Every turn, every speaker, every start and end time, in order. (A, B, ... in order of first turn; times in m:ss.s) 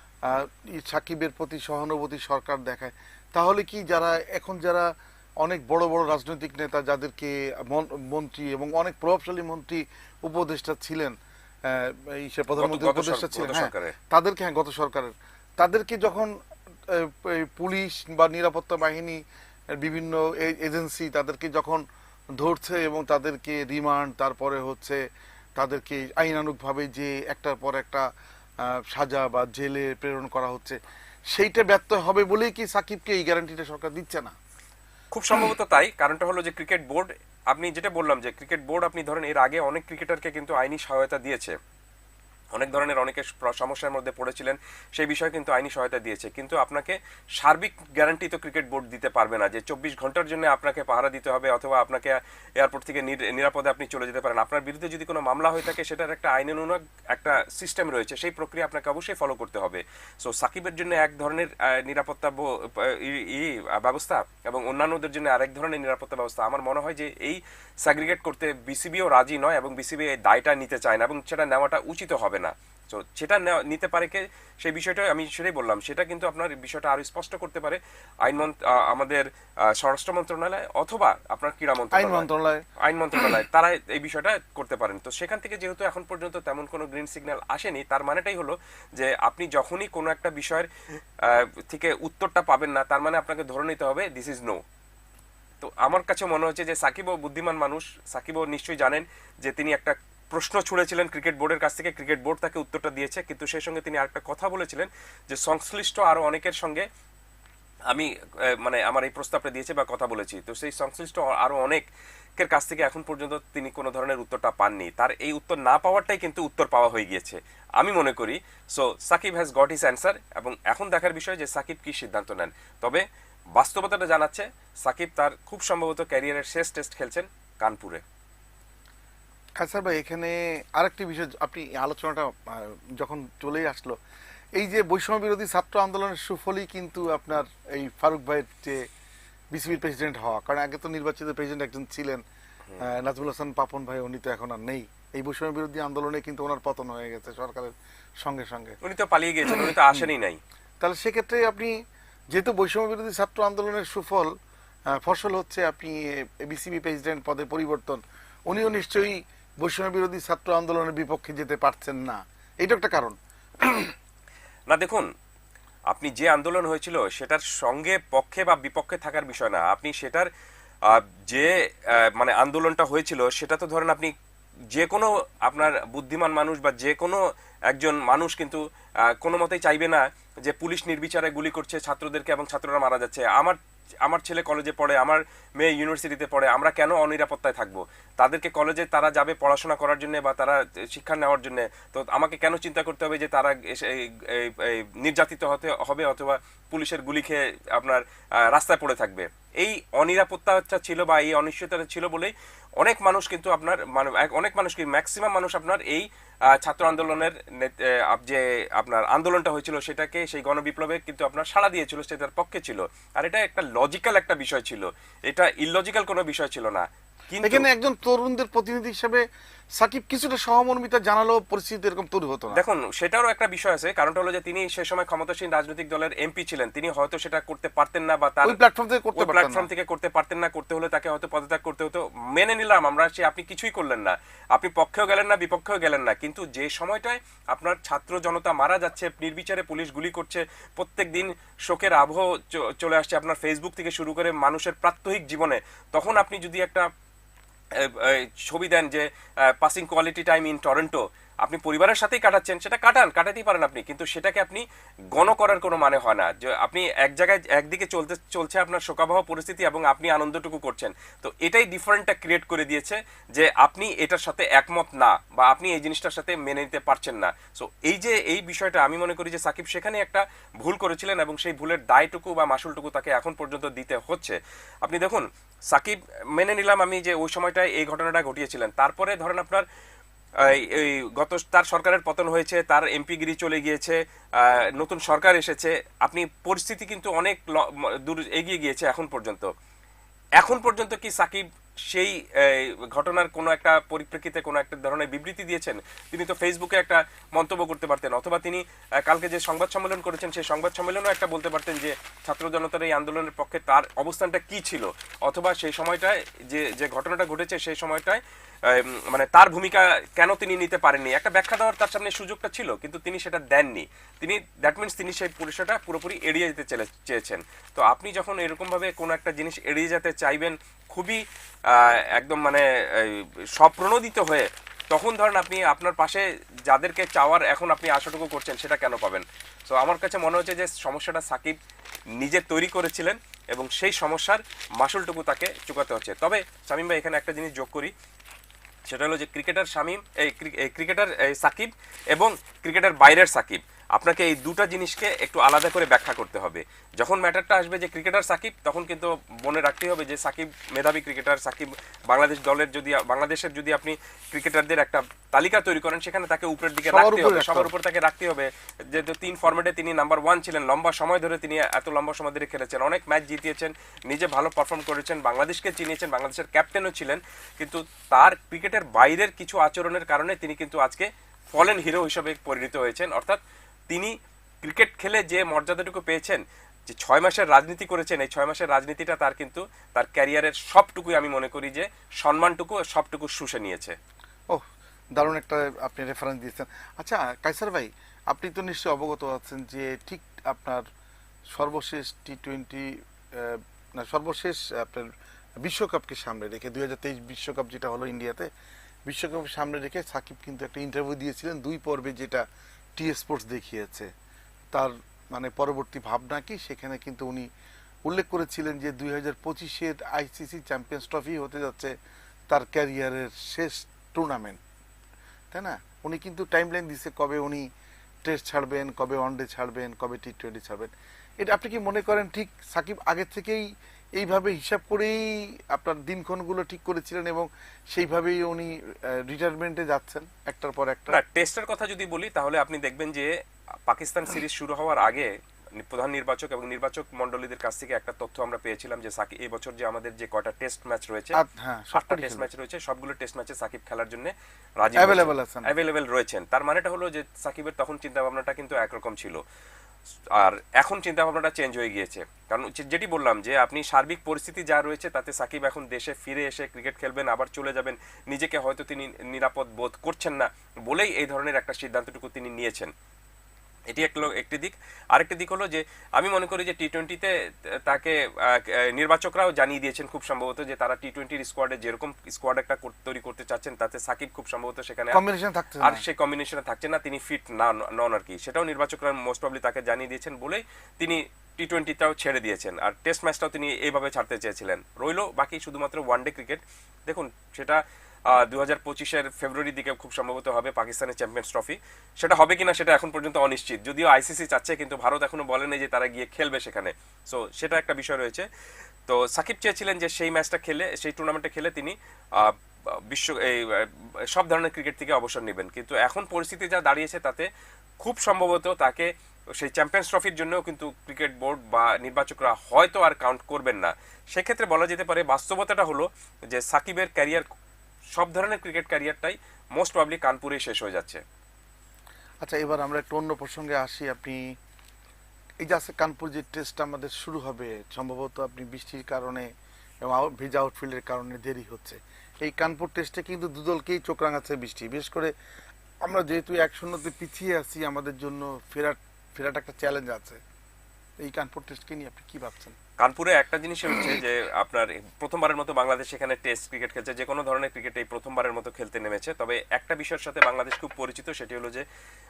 0:00.2-0:19.2 A
0:12.6-0:14.0 B
0:19.7-0:34.4 A
0:35.1-0:41.6 B
0:42.6-1:22.3 B
1:21.9-1:22.6 A
1:22.8-1:34.6 B
1:35.6-1:46.9 B
1:47.9-1:51.8 B
1:52.4-2:03.0 B
2:03.6-2:08.0 B
2:09.6-2:14.0 A
2:14.6-2:18.9 A
2:19.5-2:22.2 A
2:22.8-2:28.8 A
2:28.8-2:30.4 B
2:30.8-2:31.8 A
2:32.3-2:34.3 A
2:34.9-2:44.0 A
2:44.7-2:45.1 B
2:45.9-2:50.3 B
2:50.8-2:54.1 B
2:54.7-3:37.7 B
3:37.4-3:39.2 A
3:39.8-3:42.6 A
3:42.5-3:48.6 B
3:48.4-3:49.7 A
3:49.2-4:06.9 B
4:07.7-4:39.7 B
4:40.4-4:49.5 B
4:50.4-5:31.6 B
5:32.2-5:37.9 B
5:38.9-6:24.0 B
5:56.9-5:57.7 A
6:24.5-6:30.9 A
6:31.5-6:38.5 A
6:39.1-6:44.1 A
6:44.7-6:47.5 A
6:48.1-6:51.9 A
6:52.5-6:54.6 A
6:55.5-6:57.7 A
6:58.2-7:11.2 A
7:11.1-7:13.3 B
7:13.9-7:21.4 B
7:21.3-7:22.5 A
7:21.9-7:29.4 B
7:25.0-7:25.7 A
7:30.4-7:42.9 B
7:43.9-7:47.3 B
7:47.9-7:55.2 B
7:55.1-7:56.0 A
7:55.8-8:18.5 B
8:19.1-8:27.5 B
8:28.0-8:37.4 B
8:38.2-8:41.2 B
8:42.4-8:44.4 A
8:45.6-8:49.5 A
8:50.0-8:55.3 A
8:56.0-9:00.4 A
9:01.2-9:02.8 A
9:03.0-9:11.8 B